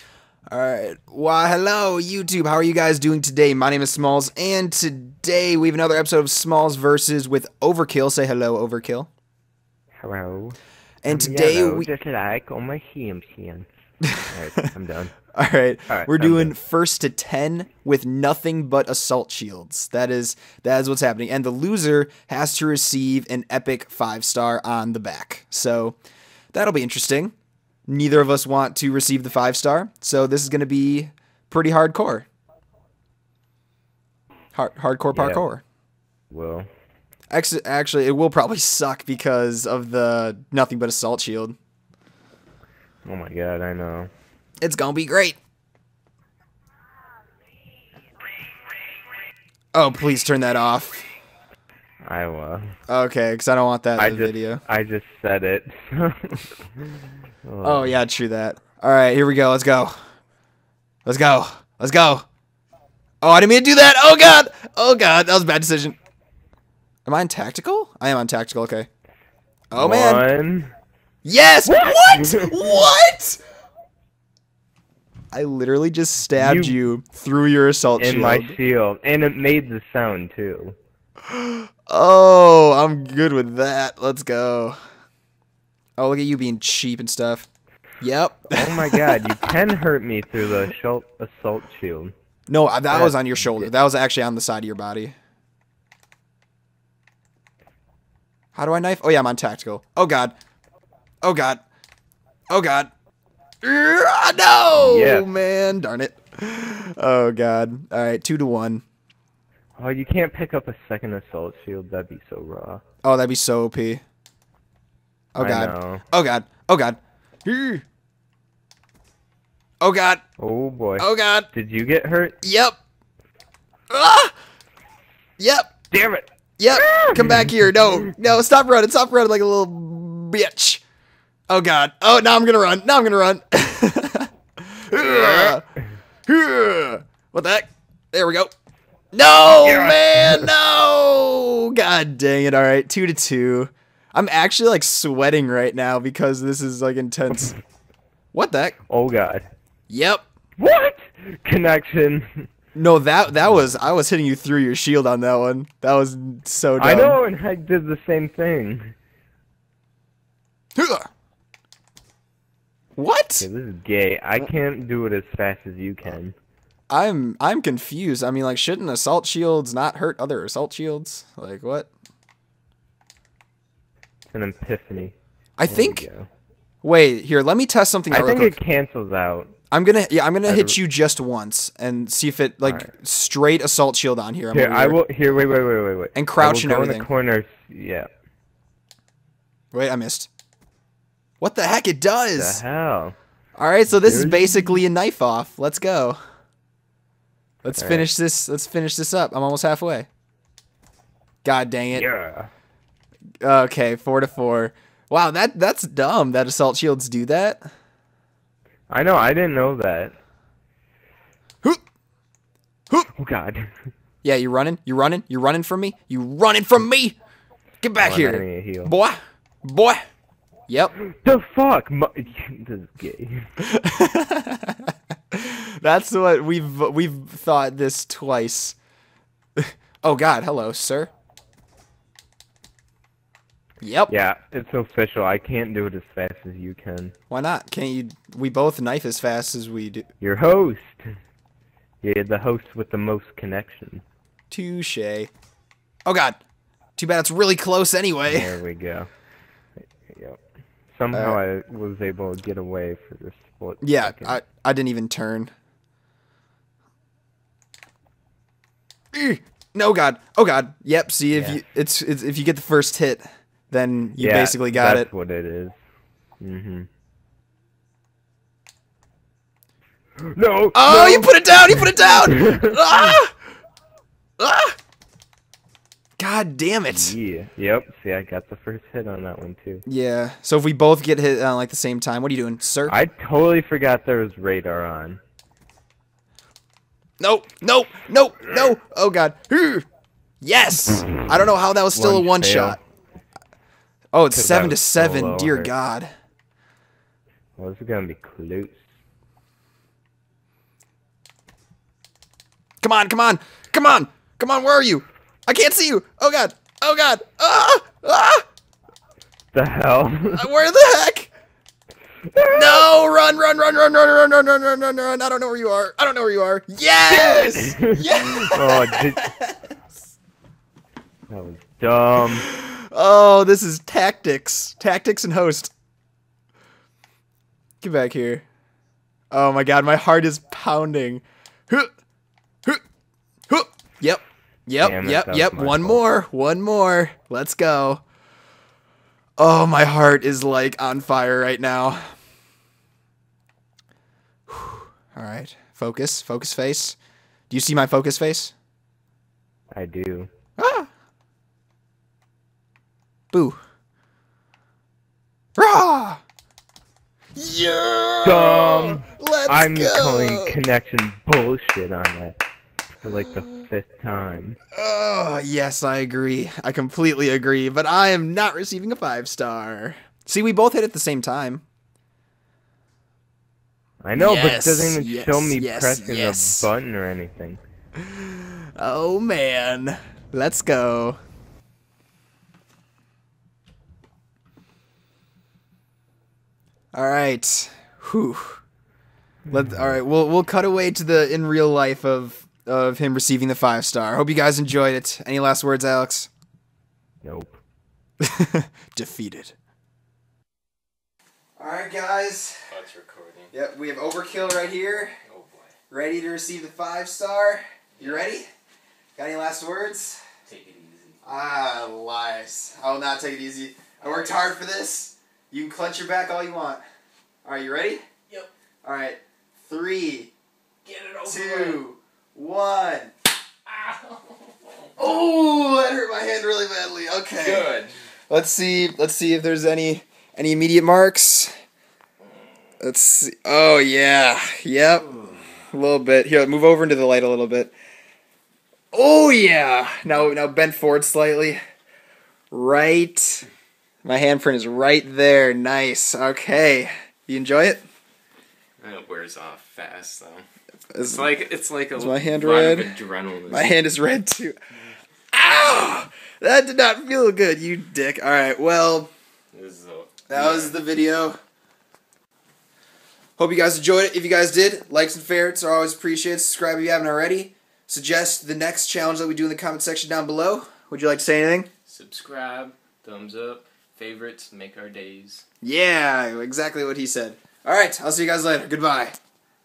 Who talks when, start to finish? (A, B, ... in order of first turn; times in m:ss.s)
0:00.5-0:09.1 A
0:09.9-0:13.7 B
0:11.0-0:11.9 A
0:14.2-0:15.1 B
0:15.3-0:26.0 A
0:15.9-0:16.5 B
0:26.5-0:27.3 A
0:27.9-0:32.2 A
0:34.5-0:35.6 A
0:35.1-0:35.4 B
0:36.3-0:36.7 B
0:37.3-0:41.6 A
0:43.0-0:44.1 B
0:44.6-0:45.4 A
0:49.7-0:51.0 A
0:52.0-0:52.7 B
0:52.9-0:54.6 A
0:54.0-0:58.0 B
0:57.6-0:59.9 A
1:01.0-1:02.2 A
1:03.2-1:06.0 A
1:07.0-1:08.9 A
1:09.7-1:10.2 A
1:09.7-1:10.7 B
1:11.2-1:13.4 A
1:11.6-1:12.9 B
1:15.3-1:18.6 A
1:16.3-1:16.8 B
1:18.0-1:20.8 B
1:21.3-1:24.8 A
1:26.0-1:27.5 A
1:28.0-1:29.2 A
1:28.5-1:32.1 B
1:32.5-1:35.1 A
1:32.9-1:33.7 B
1:38.5-1:40.3 A
1:41.2-1:41.6 A
1:42.5-1:42.9 A
1:43.6-1:48.8 A
1:44.7-1:45.3 B
1:49.8-1:52.8 B
1:53.0-1:54.0 A
1:55.3-1:57.8 A
1:55.4-1:56.0 B
1:59.8-2:00.2 A
2:00.4-2:02.4 B
2:01.0-2:01.5 A
2:02.4-2:02.8 A
2:03.9-2:04.3 A
2:05.4-2:05.7 A
2:05.9-2:08.1 B
2:06.6-2:10.8 A
2:11.5-2:15.6 A
2:15.0-2:15.6 B
2:16.3-2:18.5 A
2:19.1-2:27.5 A
2:19.6-2:20.5 B
2:28.3-2:28.8 A
2:28.9-2:29.5 B
2:29.9-2:30.2 A
2:30.6-2:32.4 B
2:32.7-2:37.2 A
2:36.8-2:38.9 B
2:40.8-2:41.1 A
2:43.0-2:43.5 A
2:43.4-2:46.4 B
2:46.9-2:51.9 A
2:54.3-2:55.1 B
2:55.6-2:56.0 A
2:55.6-2:56.3 B
2:56.8-2:58.5 A
2:58.1-2:59.5 B
2:59.7-3:05.0 A
3:00.4-3:00.8 B
3:02.6-3:02.9 B
3:04.5-3:08.1 B
3:06.1-3:07.1 A
3:09.7-3:10.3 A
3:11.4-3:12.6 A
3:12.4-3:13.1 B
3:13.6-3:16.2 A
3:14.0-3:14.8 B
3:17.6-3:20.1 A
3:17.7-3:18.1 B
3:21.4-3:22.1 A
3:21.9-3:22.5 B
3:23.4-3:27.6 A
3:28.9-3:30.2 B
3:33.1-3:33.7 B
3:34.2-3:37.2 A
3:37.8-3:40.0 A
3:38.0-3:38.9 B
3:40.7-3:40.9 A
3:41.0-3:43.4 B
3:43.6-3:48.8 A
3:49.6-3:51.1 A
3:53.8-3:54.1 A
3:54.1-3:57.1 B
3:57.3-4:00.0 A
4:00.2-4:01.1 B
4:02.0-4:04.0 B
4:04.5-4:05.3 A
4:06.0-4:06.4 A
4:07.0-4:08.5 A
4:08.3-4:09.1 B
4:10.0-4:10.4 B
4:10.9-4:14.4 B
4:11.1-4:11.4 A
4:13.8-4:15.5 A
4:19.1-4:25.1 A
4:21.3-4:21.6 B
4:24.2-4:25.8 B
4:26.4-4:26.9 B
4:30.2-4:33.1 B
4:30.7-4:33.4 A
4:34.4-4:34.8 A
4:36.2-4:37.2 A
4:36.9-4:39.8 B
4:39.8-4:43.0 A
4:42.9-4:45.2 B
4:47.2-4:49.8 A
4:50.4-4:52.8 A
4:51.9-4:52.8 B
4:54.1-4:56.1 A
4:54.3-4:55.7 B
4:57.6-4:58.8 B
5:02.8-5:08.4 A
5:09.5-5:10.4 B
5:10.3-5:11.3 A
5:12.3-5:12.9 B
5:12.5-5:19.6 A
5:17.1-5:19.3 B
5:21.3-5:22.5 B
5:22.4-5:25.7 A
5:27.8-5:28.4 A
5:29.3-5:31.9 A
5:33.5-5:38.0 A
5:34.8-5:36.0 B
5:39.4-5:42.1 A
5:44.5-5:47.0 A
5:47.5-5:48.5 A
5:49.7-5:50.3 B
5:50.6-5:50.9 A
5:53.3-5:53.6 A
5:55.6-5:56.2 A
5:57.3-6:00.6 A
5:58.2-6:02.4 B
6:03.0-6:04.6 B
6:04.7-6:11.6 A
6:14.0-6:17.6 B
6:14.2-6:16.7 A
6:18.0-6:21.2 A
6:26.9-6:28.6 A
6:29.5-6:36.3 A
6:37.2-6:37.6 B
6:38.2-6:39.5 A
6:41.6-6:42.6 A
6:42.7-6:43.5 C
6:43.5-6:45.2 A
6:45.2-6:45.7 C
6:45.9-6:48.5 A
6:48.0-6:48.3 C
6:49.2-6:50.2 A
6:50.4-6:51.2 C
6:51.2-6:56.8 A
6:54.0-6:54.4 C
6:57.4-6:58.0 A
6:58.8-7:00.3 A
7:00.8-7:01.8 C
7:01.2-7:03.1 A
7:03.7-7:04.4 C
7:05.0-7:07.7 A
7:07.4-7:07.9 C
7:08.3-7:11.5 A
7:12.8-7:15.1 A
7:15.2-7:15.4 C
7:15.7-7:17.7 A
7:18.9-7:21.6 A
7:22.5-7:23.5 A
7:24.0-7:27.8 A
7:28.8-7:30.4 C
7:30.9-7:31.3 A
7:31.0-7:33.7 C
7:31.9-7:32.9 A
7:33.5-7:34.6 A
7:35.3-7:39.1 A
7:39.5-7:40.8 C
7:40.3-7:41.4 A
7:43.4-7:51.7 A
7:51.9-7:55.4 C
7:55.6-7:59.2 A